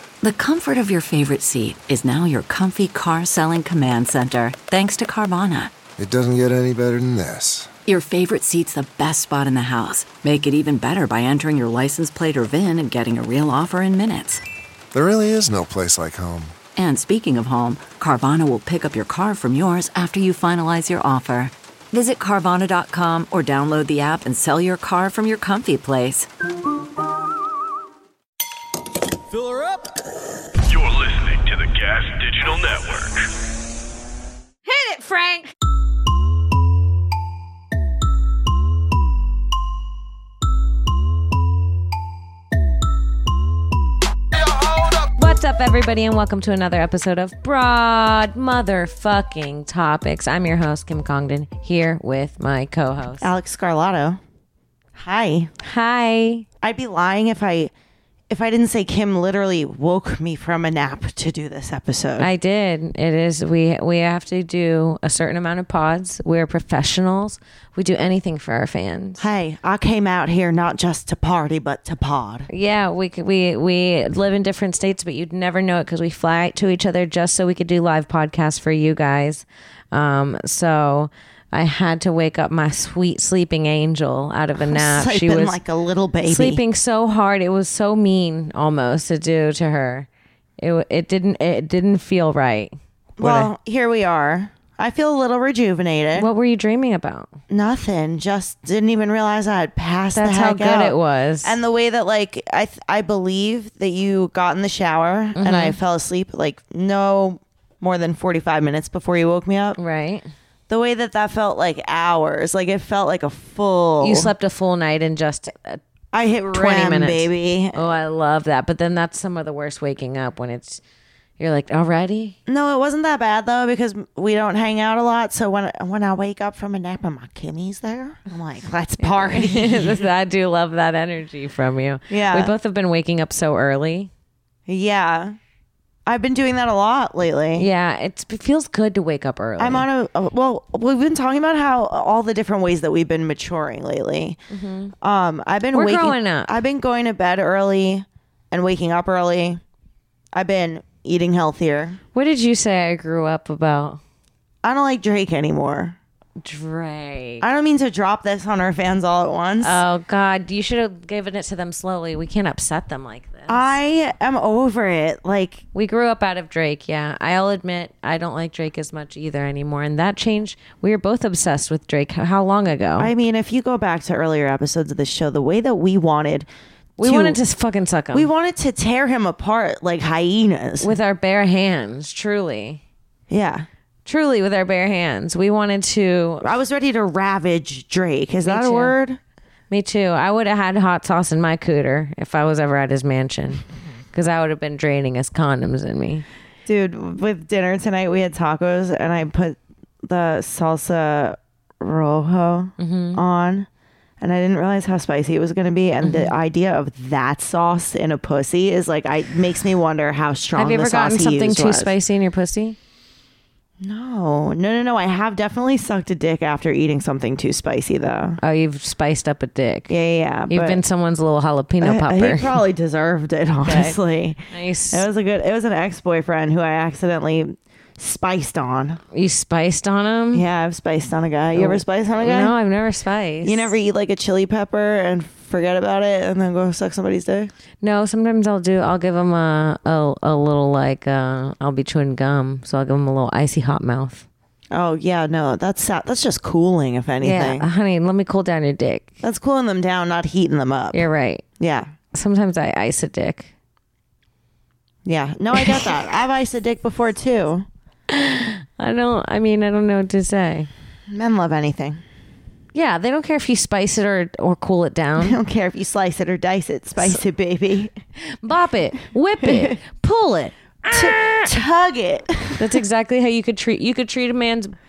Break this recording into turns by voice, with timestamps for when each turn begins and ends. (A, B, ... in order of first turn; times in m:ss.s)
0:00.2-0:05.7 A
0:06.0-0:07.7 B
0:07.9-0:14.4 A
0:14.9-0:16.5 B
0:16.8-0:26.3 A
0:30.6-0:33.3 C
0:34.6-0:35.5 D
0:45.1-0:53.3 D
0:53.2-0:54.2 E
0:55.0-0:55.5 E
0:55.6-0:56.4 D
0:56.6-0:57.7 E
0:58.3-1:02.3 E
1:02.2-1:09.2 D
1:09.2-1:12.5 E
1:12.5-1:25.6 D
1:24.6-1:26.6 E
1:26.2-1:30.1 D
1:30.6-1:33.5 D
1:33.2-1:36.3 E
1:36.1-1:37.3 D
1:37.5-1:49.8 E
1:40.1-1:41.6 D
1:45.3-1:45.8 D
1:49.8-1:50.2 D
1:50.7-1:54.3 E
1:54.0-1:55.8 D
1:56.1-1:57.8 E
1:56.5-2:00.8 D
2:01.4-2:02.4 D
2:02.4-2:10.1 E
2:09.0-2:14.1 D
2:12.1-2:12.5 E
2:14.7-2:15.4 E
2:16.0-2:17.7 E
2:17.6-2:19.9 D
2:19.6-2:24.4 E
2:24.5-2:24.9 D
2:25.0-2:29.6 E
2:25.7-2:26.6 D
2:30.3-2:32.0 E
2:32.1-2:34.0 D
2:34.6-2:36.0 E
2:36.4-2:37.4 D
2:37.4-2:39.8 E
2:39.6-2:43.7 D
2:43.5-2:45.6 E
2:45.7-2:53.1 D
2:53.0-2:56.5 E
2:57.0-2:58.3 D
2:57.0-2:57.4 E
2:58.1-3:00.9 E
3:00.8-3:02.8 D
3:03.3-3:03.7 E
3:04.0-3:06.4 D
3:06.4-3:09.2 E
3:08.4-3:09.0 D
3:09.7-3:16.2 D
3:16.6-3:23.7 E
3:22.8-3:23.2 D
3:24.2-3:31.9 E
3:26.0-3:26.3 D
3:30.5-3:32.8 D
3:33.8-3:38.4 E
3:38.4-3:39.9 D
3:39.9-3:40.8 E
3:40.5-3:42.6 D
3:41.8-3:49.0 E
3:43.6-3:44.0 D
3:44.5-3:45.0 D
3:49.1-3:50.4 D
3:50.3-3:52.5 E
3:51.5-3:53.7 D
3:53.4-3:57.5 E
3:57.8-4:04.2 D
4:04.7-4:07.7 E
4:07.2-4:09.1 D
4:09.2-4:11.0 E
4:10.9-4:11.4 D
4:11.6-4:11.9 E
4:12.1-4:13.5 D
4:15.0-4:17.7 E
4:15.5-4:15.9 D
4:18.1-4:20.7 D
4:21.1-4:22.0 E
4:22.7-4:25.4 D
4:25.2-4:27.9 E
4:28.3-4:31.5 D
4:29.4-4:29.8 E
4:30.9-4:32.8 E
4:32.6-4:34.7 D